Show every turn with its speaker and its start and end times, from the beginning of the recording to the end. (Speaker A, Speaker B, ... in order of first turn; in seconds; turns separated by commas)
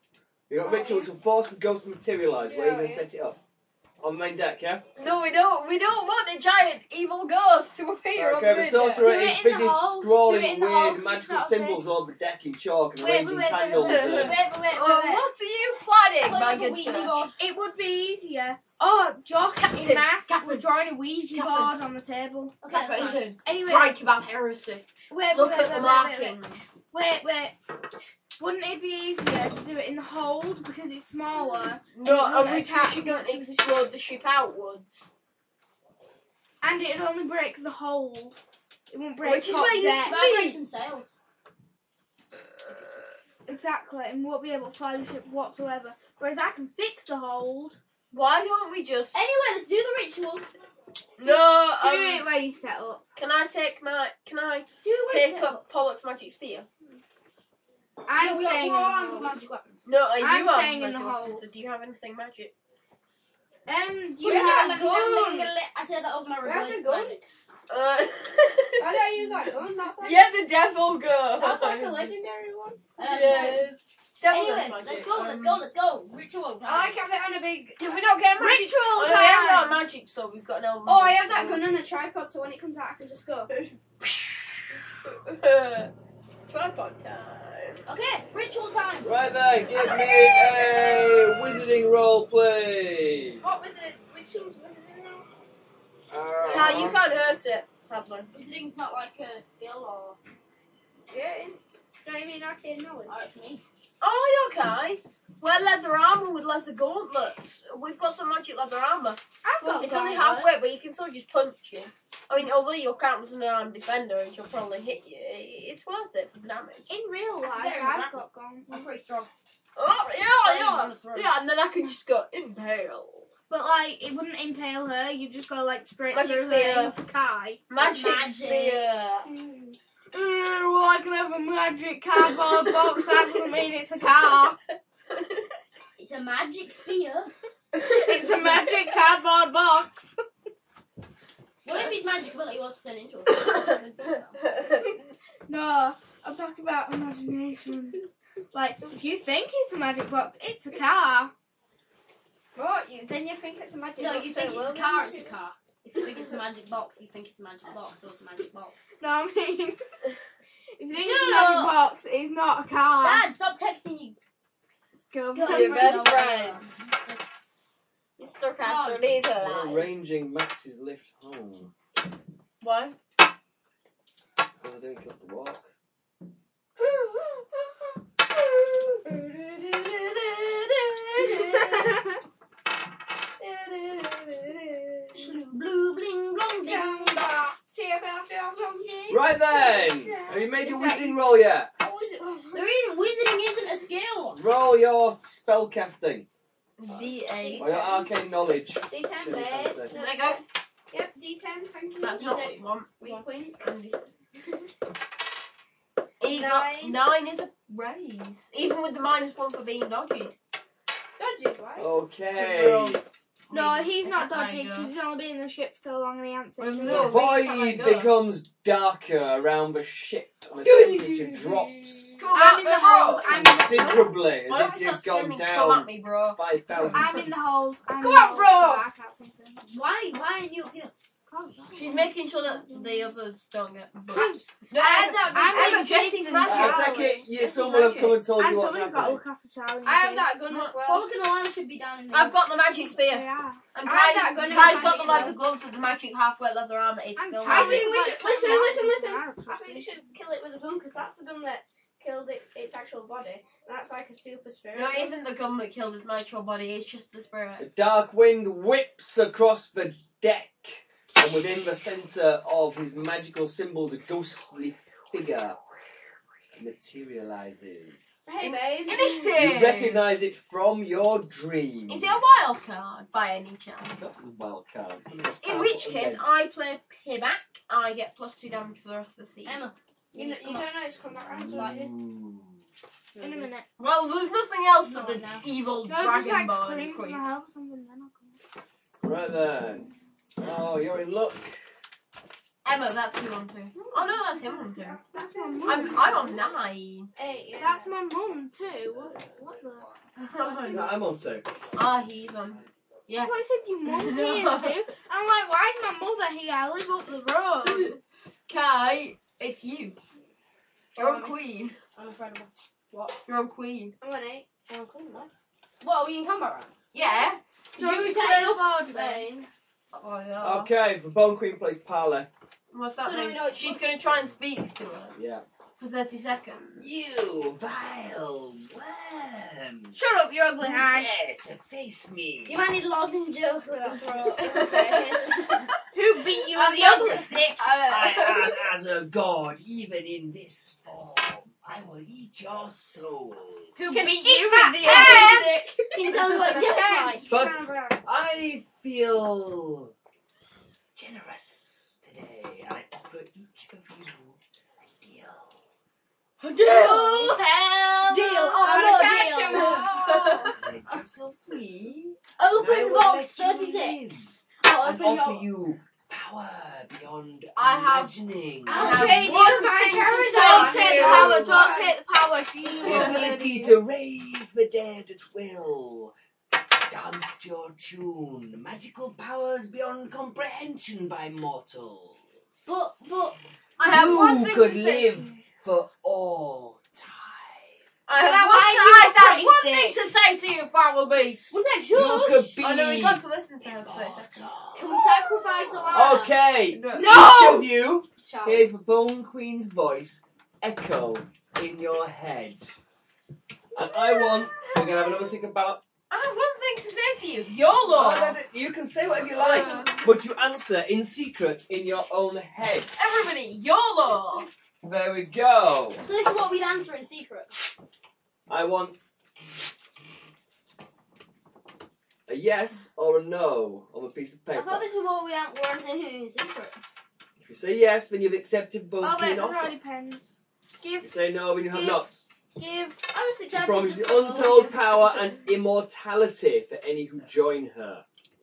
Speaker A: 0.5-3.4, Speaker B: 0.7-1.1, Speaker B: 2.5-3.0, Speaker A: 4.0-4.8, Speaker B: 5.0-9.1, Speaker A: 8.1-14.4, Speaker C: 9.0-11.8, Speaker C: 13.0-15.3, Speaker B: 13.8-17.3, Speaker D: 16.2-17.4, Speaker C: 17.4-22.6, Speaker B: 19.6-20.6, Speaker B: 21.3-21.8, Speaker D: 22.6-23.3, Speaker B: 22.7-26.8, Speaker C: 23.4-24.0, Speaker C: 25.1-26.4, Speaker C: 26.9-27.5, Speaker C: 28.4-33.9, Speaker B: 31.9-35.1, Speaker C: 36.6-38.4, Speaker C: 38.9-40.1, Speaker B: 39.2-40.6, Speaker D: 40.0-41.1, Speaker B: 42.6-43.0, Speaker C: 43.5-47.8, Speaker B: 48.1-49.2, Speaker D: 49.1-50.5, Speaker B: 51.2-52.3, Speaker C: 51.2-53.0, Speaker B: 53.1-56.7, Speaker D: 54.8-55.6, Speaker C: 58.1-59.3, Speaker D: 58.1-59.9, Speaker B: 59.9-62.5, Speaker C: 60.2-61.4, Speaker C: 63.7-65.5, Speaker D: 64.2-67.2, Speaker E: 66.4-67.2, Speaker B: 67.7-72.1, Speaker E: 68.8-70.3, Speaker E: 71.4-73.7, Speaker D: 73.0-73.7, Speaker B: 73.0-75.6, Speaker D: 74.3-77.0, Speaker E: 76.6-78.2, Speaker B: 77.8-81.7, Speaker C: 78.4-79.8, Speaker E: 80.8-83.5, Speaker B: 83.5-85.9, Speaker B: 86.5-87.8, Speaker D: 87.9-89.1, Speaker A: 89.0-93.6, Speaker D: 89.8-90.0, Speaker E: 93.4-95.3, Speaker A: 96.1-97.0, Speaker B: 96.4-98.3, Speaker D: 98.3-100.2, Speaker E: 101.1-103.3, Speaker D: 103.1-103.6, Speaker B: 104.0-116.9, Speaker C: 109.4-110.5, Speaker C: 116.9-118.9, Speaker D: 117.5-119.3, Speaker B: 119.8-123.3, Speaker D: 120.4-121.3, Speaker C: 123.5-127.7, Speaker B: 126.1-126.9, Speaker B: 127.7-129.3, Speaker D: 127.8-128.9, Speaker C: 129.3-134.6, Speaker B: 132.4-133.1, Speaker D: 136.0-137.3, Speaker C: 137.8-140.2, Speaker B: 137.8-138.7, Speaker D: 141.6-144.4, Speaker C: 145.5-148.0, Speaker C: 148.5-151.3, Speaker E: 152.6-155.3, Speaker D: 154.0-158.8, Speaker C: 159.0-159.8, Speaker C: 160.8-163.3, Speaker D: 160.9-161.8, Speaker D: 163.0-164.2, Speaker C: 165.1-166.3, Speaker D: 165.3-167.5, Speaker B: 165.4-166.6, Speaker B: 168.2-169.9, Speaker D: 168.6-169.0, Speaker A: 169.4-171.7, Speaker B: 172.6-172.9, Speaker A: 174.6-175.7, Speaker B: 179.8-180.6, Speaker E: 183.4-185.0, Speaker D: 185.1-187.2, Speaker E: 186.6-191.0, Speaker A: 189.1-191.7, Speaker C: 190.5-191.1, Speaker E: 191.8-192.7, Speaker D: 192.5-194.4, Speaker A: 194.3-196.3, Speaker B: 196.8-198.1, Speaker E: 196.9-198.1, Speaker A: 197.6-199.9, Speaker E: 198.9-202.4, Speaker B: 199.9-200.4, Speaker B: 202.0-204.1, Speaker D: 202.1-203.5, Speaker E: 203.0-203.5, Speaker B: 206.2-210.4, Speaker E: 206.3-207.0, Speaker E: 211.2-211.9, Speaker A: 211.8-213.0, Speaker B: 212.3-214.9, Speaker C: 213.5-217.2, Speaker B: 216.6-218.1, Speaker A: 216.8-222.2, Speaker E: 220.6-221.6, Speaker B: 222.2-227.3, Speaker C: 222.3-224.2, Speaker A: 223.2-227.7, Speaker C: 226.9-229.6, Speaker E: 228.0-228.8, Speaker D: 229.6-230.9, Speaker C: 231.3-233.1, Speaker B: 231.7-236.9, Speaker C: 234.1-237.2, Speaker E: 234.8-236.5, Speaker A: 236.4-239.2, Speaker E: 237.4-237.9, Speaker C: 238.2-240.4, Speaker E: 239.8-241.1, Speaker B: 240.4-240.8, Speaker D: 240.8-242.4, Speaker B: 242.1-247.9, Speaker C: 242.9-245.3, Speaker E: 243.9-245.3, Speaker D: 244.5-245.4, Speaker C: 247.2-249.9, Speaker D: 247.4-248.6, Speaker E: 247.5-255.1, Speaker B: 254.7-257.6, Speaker A: 257.6-265.6, Speaker A: 266.5-268.2, Speaker D: 268.3-269.3, Speaker B: 268.4-270.0, Speaker A: 269.4-272.7, Speaker B: 271.9-274.1, Speaker A: 274.0-276.3, Speaker B: 275.4-279.6, Speaker D: 279.4-279.8, Speaker E: 280.1-281.9, Speaker B: 280.1-280.7, Speaker A: 281.3-282.6, Speaker D: 281.5-281.9, Speaker D: 283.1-283.5, Speaker C: 283.2-283.6, Speaker B: 283.8-287.2, Speaker D: 284.8-285.5, Speaker C: 285.9-288.4, Speaker A: 289.0-289.9, Speaker A: 290.4-291.6, Speaker B: 292.6-295.0, Speaker E: 293.9-296.4, Speaker C: 295.0-296.4, Speaker B: 295.6-297.1, Speaker E: 297.1-297.9, Speaker C: 297.6-299.9, Speaker B: 300.1-301.0, Speaker D: 300.4-300.9, Speaker A: 300.6-301.5, Speaker B: 301.7-303.3, Speaker C: 303.1-307.9, Speaker B: 303.8-304.9, Speaker B: 307.6-310.0, Speaker B: 310.9-311.8, Speaker D: 311.9-313.2, Speaker B: 313.3-313.9, Speaker E: 314.0-315.2, Speaker D: 314.8-315.3, Speaker D: 315.8-316.8, Speaker B: 316.9-317.4, Speaker D: 317.8-319.5, Speaker C: 317.8-319.2, Speaker B: 319.9-320.7, Speaker A: 320.4-322.3, Speaker B: 322.7-325.1, Speaker D: 323.0-323.9, Speaker A: 325.1-325.4, Speaker B: 325.8-326.9, Speaker A: 326.8-332.6, Speaker C: 329.9-331.1, Speaker D: 332.4-335.7, Speaker B: 334.3-335.1, Speaker C: 335.9-337.8, Speaker B: 336.5-338.6, Speaker A: 337.8-343.7, Speaker B: 343.8-346.8, Speaker C: 343.8-348.0, Speaker D: 344.8-347.3, Speaker A: 347.3-349.9, Speaker A: 350.9-354.4, Speaker A: 355.0-355.6, Speaker B: 356.4-358.9, Speaker D: 356.6-357.4, Speaker D: 358.1-360.3, Speaker C: 358.6-359.9, Speaker E: 358.6-360.4, Speaker B: 359.5-360.6, Speaker A: 360.6-369.0, Speaker D: 362.4-364.0, Speaker D: 364.6-365.5, Speaker B: 367.6-368.1, Speaker D: 368.7-371.4, Speaker B: 368.7-371.9, Speaker C: 368.7-373.8, Speaker E: 370.2-371.9, Speaker B: 372.8-373.3, Speaker A: 372.8-376.1, Speaker A: 376.9-382.8, Speaker D: 382.6-383.4, Speaker B: 383.8-385.3, Speaker A: 383.8-387.8, Speaker B: 388.1-391.5, Speaker C: 388.1-390.0, Speaker D: 391.5-392.6, Speaker A: 391.9-395.0, Speaker B: 392.6-394.3, Speaker D: 394.7-396.4, Speaker A: 395.9-402.7, Speaker B: 396.7-397.1, Speaker C: 396.9-397.7, Speaker D: 398.2-398.7, Speaker A: 403.7-405.8, Speaker B: 403.8-405.0, Speaker B: 406.1-408.4, Speaker A: 407.9-412.9, Speaker B: 409.3-410.0, Speaker B: 412.9-414.5, Speaker A: 414.8-416.0, Speaker D: 416.0-417.5, Speaker A: 418.5-419.0, Speaker A: 422.3-424.9, Speaker D: 424.5-426.8, Speaker A: 427.4-429.7, Speaker C: 429.0-430.3, Speaker B: 430.8-431.1, Speaker A: 431.0-432.3, Speaker D: 433.1-434.8, Speaker A: 433.5-438.0